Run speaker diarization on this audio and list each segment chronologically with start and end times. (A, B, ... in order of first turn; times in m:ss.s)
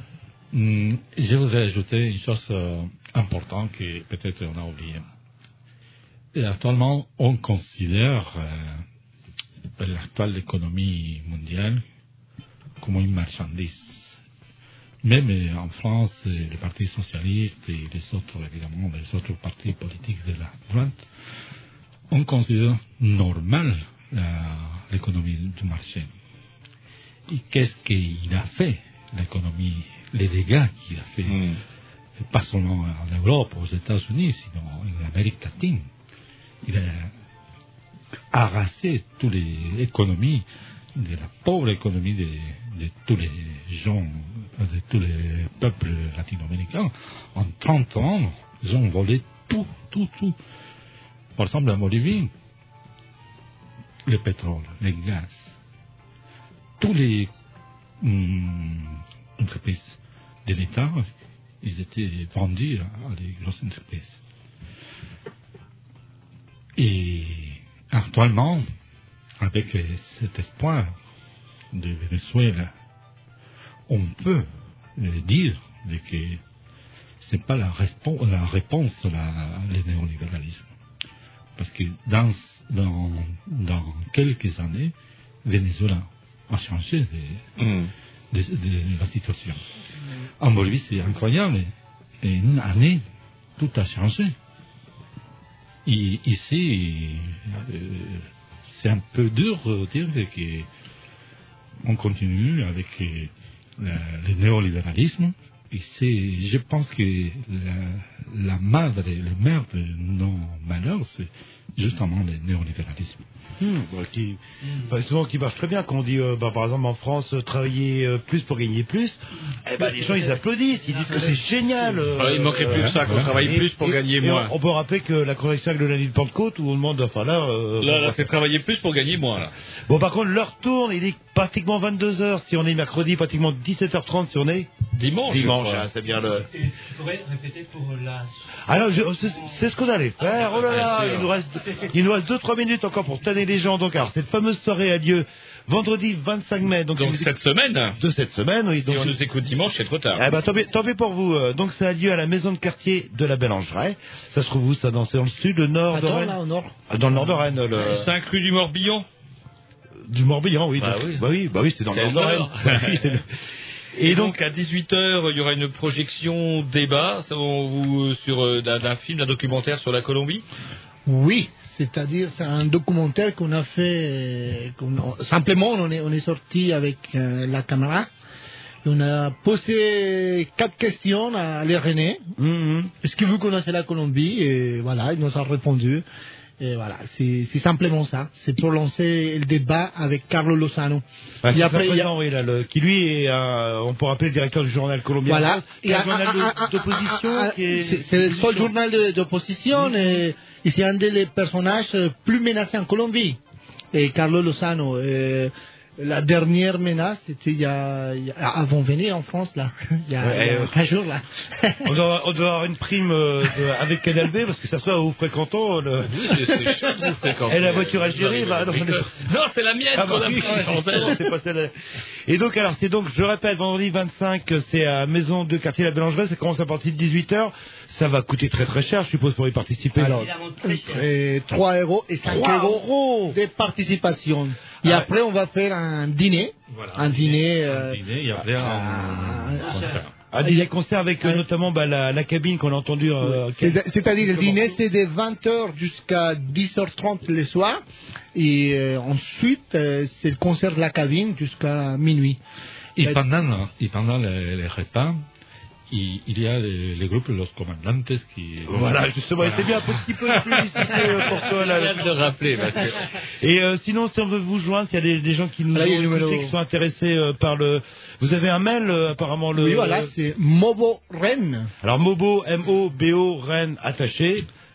0:00.5-0:05.0 A
0:06.3-0:08.8 A
0:09.8-0:11.8 A
0:12.8-0:14.2 A
0:15.0-0:21.0 A
0:22.1-0:26.1 A
0:27.3-0:31.4 A
0:31.3-0:31.6 B
0:32.2-0:35.9 A
0:36.6-0:37.1 A
0:38.3-0:50.4 A
0:51.4-0:52.3 A
0:54.0-0:55.6 A
0:56.8-0:57.3 A
0:58.0-1:01.1 A
1:01.6-1:04.2 A
1:06.8-1:08.7 A
1:09.4-1:10.9 A
1:11.7-1:12.7 A
1:13.9-1:16.4 A
1:17.2-1:20.7 A
1:21.6-1:24.9 A
1:25.4-1:27.4 A
1:27.6-1:27.9 B
1:28.3-1:29.6 A
1:30.4-1:33.0 A
1:33.6-1:34.3 A
1:35.8-1:40.7 A
1:41.8-1:53.2 A
1:53.6-2:08.3 C
1:59.9-2:00.4 D
2:02.1-2:04.5 B
2:02.7-2:03.3 A
2:07.8-2:09.5 B
2:09.9-2:14.7 C
2:14.9-2:16.4 B
2:15.2-2:16.4 C
2:16.5-2:18.3 D
2:18.7-2:27.3 C
2:20.3-2:21.3 B
2:27.0-2:28.0 B
2:28.0-2:29.2 C
2:28.8-2:30.3 B
2:30.1-2:38.1 C
2:35.9-2:36.8 E
2:37.8-2:39.0 B
2:40.0-2:43.2 C
2:40.8-2:41.2 B
2:41.9-2:43.0 B
2:44.0-2:44.4 C
2:44.0-2:50.4 B
2:51.0-2:58.1 E
2:58.8-3:02.3 E
3:02.4-3:02.9 C
3:03.0-3:06.0 E
3:06.6-3:12.1 E
3:11.4-3:18.7 C
3:15.2-3:23.4 E
3:19.7-3:20.3 C
3:23.9-3:31.9 E
3:30.2-3:30.8 C
3:31.8-3:36.6 C
3:36.0-3:41.2 B
3:37.4-3:39.2 C
3:39.9-3:41.7 C
3:42.2-3:50.3 C
3:50.0-3:59.7 E
3:50.2-3:51.0 D
3:52.2-3:53.4 C
3:54.8-3:55.1 C
3:56.7-4:00.3 A
4:00.3-4:04.8 C
4:00.4-4:00.7 E
4:03.2-4:07.8 E
4:08.3-4:12.4 E
4:13.0-4:15.2 A
4:15.9-4:20.6 A
4:18.7-4:22.2 C
4:21.3-4:23.0 B
4:23.4-4:30.1 C
4:25.7-4:26.5 E
4:29.5-4:31.7 E
4:31.8-4:34.5 C